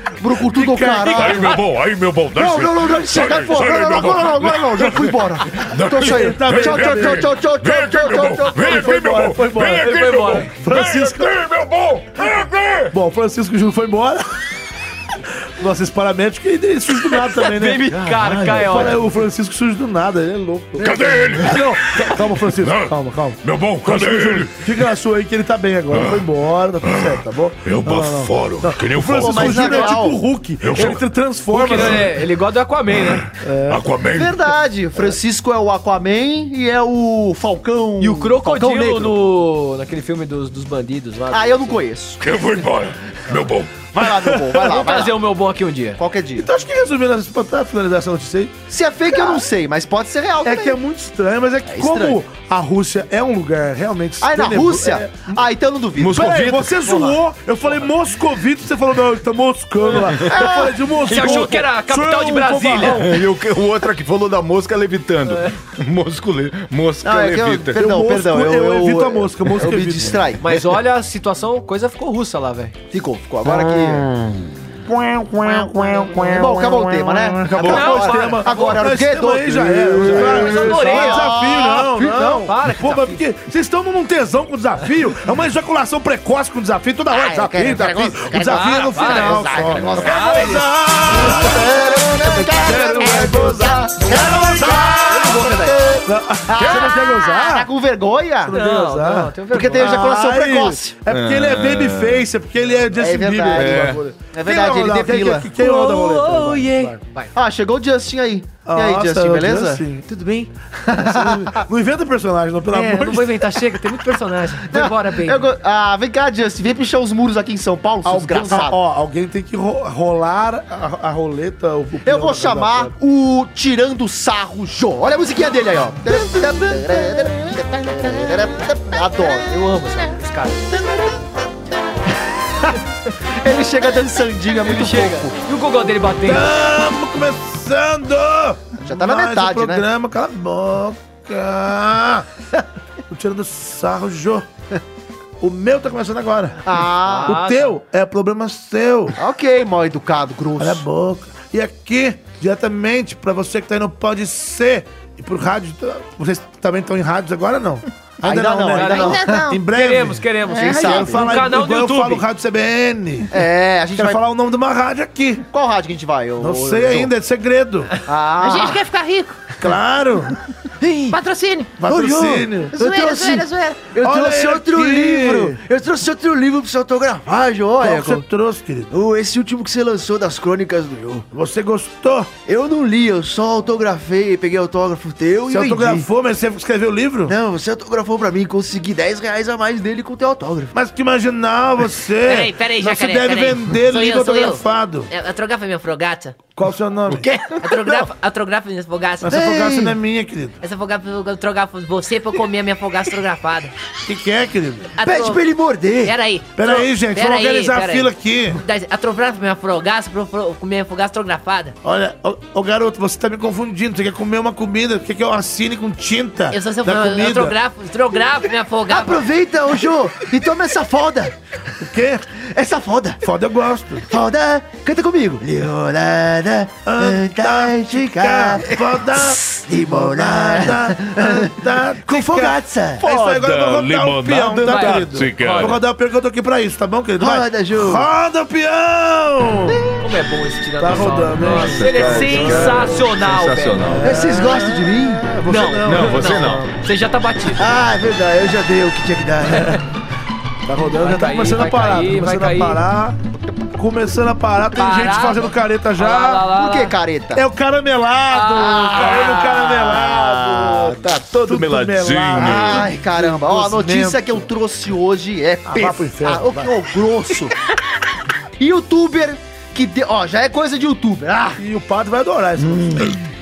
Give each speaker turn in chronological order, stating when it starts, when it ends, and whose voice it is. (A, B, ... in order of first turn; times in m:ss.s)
0:00.2-0:01.6 A
0:00.4-0:01.6 B
0:01.0-0:12.9 C
0:02.3-0:09.2 A
0:06.0-0:07.3 B
0:08.6-0:11.3 B
0:09.8-0:10.5 D
0:12.9-0:14.4 B
0:15.6-0:32.1 B
0:17.2-0:19.0 D
0:17.9-0:18.6 A
0:20.8-0:24.8 C
0:20.8-0:21.5 A
0:25.9-0:26.2 C
0:26.8-0:30.0 C
0:29.1-0:30.2 A
0:30.6-0:31.0 C
0:31.5-0:33.2 D
0:31.7-0:32.0 C
0:33.4-0:33.8 B
0:33.7-0:34.5 C
0:34.1-0:39.2 A
0:38.0-0:41.8 D
0:41.3-0:42.6 A
0:42.2-0:43.9 C
0:43.9-0:45.2 A
0:44.6-0:46.0 D
0:46.0-0:46.5 A
0:46.4-0:48.5 B
0:48.7-0:50.8 A
0:49.1-0:49.4 B
0:50.4-0:55.4 B
0:51.6-0:52.2 A
0:54.2-0:56.3 A
0:56.0-0:56.9 C
0:56.0-1:03.2 B
0:59.9-1:00.3 D
1:00.2-1:00.8 A
1:01.0-1:03.1 D
1:02.8-1:07.8 C
1:05.2-1:05.5 D
1:07.0-1:10.4 A
1:07.8-1:10.2 B
1:10.4-1:12.7 D
1:12.9-1:14.1 A
1:13.4-1:16.8 C
1:15.4-1:22.5 A
1:15.7-1:16.0 B
1:17.1-1:35.4 B
1:17.5-1:17.9 C
1:17.6-1:18.9 D
1:20.3-1:21.4 D
1:22.2-1:23.2 D
1:27.1-1:38.6 A
1:28.4-1:30.7 D
1:34.3-1:35.8 D
1:36.0-1:37.7 B
1:36.6-1:36.9 C
1:38.4-1:47.0 B
1:38.5-1:40.1 D
1:39.5-1:40.9 A
1:41.1-1:42.2 C
1:43.0-1:45.5 A
1:43.5-1:44.0 C
1:45.6-1:47.3 D
1:47.3-1:49.8 A
1:48.6-1:50.0 B
1:50.0-1:50.5 D
1:50.8-1:51.6 A
1:50.9-1:53.6 B
1:52.7-1:55.4 D
1:54.7-1:58.8 A
1:58.0-2:02.9 B
2:02.0-2:10.1 A
2:09.5-2:10.6 D
2:10.8-2:11.1 A
2:12.4-2:12.8 A
2:13.4-2:15.3 A
2:14.6-2:16.5 D
2:16.2-2:22.3 B
2:18.8-2:19.8 A
2:23.1-2:24.4 B
2:25.4-2:29.2 B
2:26.6-2:27.4 A
2:27.0-2:27.7 D
2:29.2-2:30.8 A
2:30.6-2:43.4 B
2:38.2-2:39.4 A
2:38.7-2:42.2 D
2:39.0-2:39.6 E
2:40.5-2:40.8 E
2:40.6-2:41.3 A
2:43.3-2:44.2 A
2:43.9-2:45.4 B
2:45.5-2:47.1 A
2:46.4-2:47.9 B
2:48.0-2:48.8 A
2:48.4-2:49.4 E
2:49.6-2:50.4 B
2:50.8-2:51.2 A
2:51.1-2:51.8 E
2:51.8-2:52.8 B
2:51.8-2:58.2 A
2:52.7-2:53.9 E
2:54.0-2:55.6 B
2:57.8-2:58.9 B
2:58.9-3:01.2 A
3:01.3-3:02.3 B
3:02.4-3:06.0 A
3:05.5-3:07.3 B
3:07.2-3:10.7 A
3:10.7-3:15.1 B
3:12.2-3:16.4 F
3:16.6-3:17.3 B
3:17.6-3:19.4 F
3:19.2-3:20.6 B
3:19.3-3:20.0 A
3:20.6-3:23.7 F
3:24.0-3:24.9 B
3:25.0-3:25.5 F
3:25.0-3:26.2 A
3:26.0-3:31.7 F
3:26.5-3:28.6 B
3:31.8-3:37.5 B
3:36.5-3:39.3 F
3:38.9-3:41.4 A
3:41.8-3:42.2 B
3:42.4-3:43.2 A
3:43.2-3:44.1 B
3:44.0-3:53.0 A
3:46.8-3:59.8 B
3:53.0-3:55.8 C
3:54.6-3:55.8 D
3:57.2-3:58.1 A
4:00.0-4:03.9 D
4:00.8-4:03.0 B
4:01.4-4:04.3 C
4:03.9-4:06.6 B
4:04.0-4:05.3 A
4:05.5-4:07.7 D
4:05.8-4:06.7 C
4:07.6-4:09.8 A
4:10.6-4:13.2 B
4:11.0-4:12.8 D
4:13.7-4:16.5 B
4:14.8-4:16.9 D
4:16.5-4:17.4 A
4:17.3-4:24.5 B
4:18.3-4:19.1 D
4:18.6-4:20.5 A
4:20.0-4:22.9 C
4:22.4-4:27.5 A
4:25.7-4:26.7 B
4:28.6-4:31.6 A
4:31.6-4:33.2 B